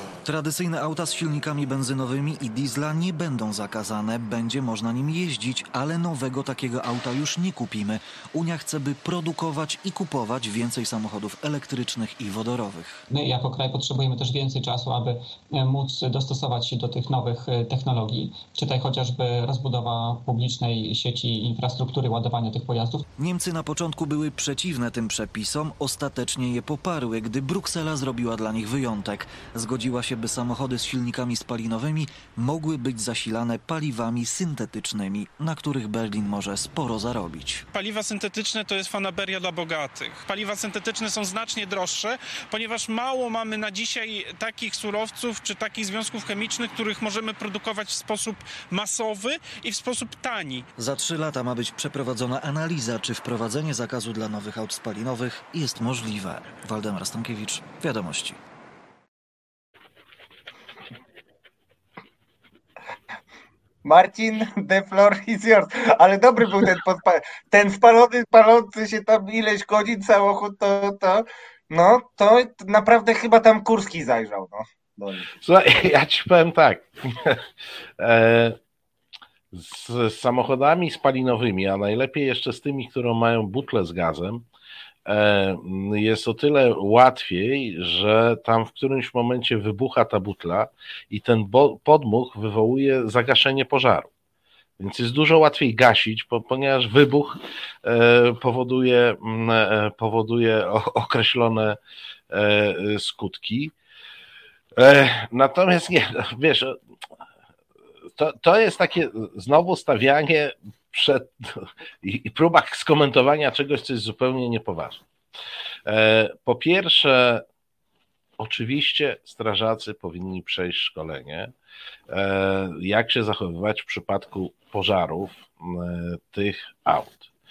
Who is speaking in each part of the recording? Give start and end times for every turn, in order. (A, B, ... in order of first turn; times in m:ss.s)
0:00.2-0:13.0 A
0:13.1-0:23.0 B
0:23.2-0:37.6 A
0:37.7-0:50.7 C
0:50.8-0:58.4 A
1:03.8-1:15.3 D
1:15.4-1:17.4 E
1:18.0-1:18.6 E
1:19.5-1:24.4 E
1:25.1-1:34.1 E
1:34.8-1:41.8 E
1:42.3-1:43.7 E
1:44.8-1:46.8 E
1:48.2-1:55.0 E
1:55.9-1:57.4 E
1:58.4-2:01.5 E
2:02.1-2:07.3 E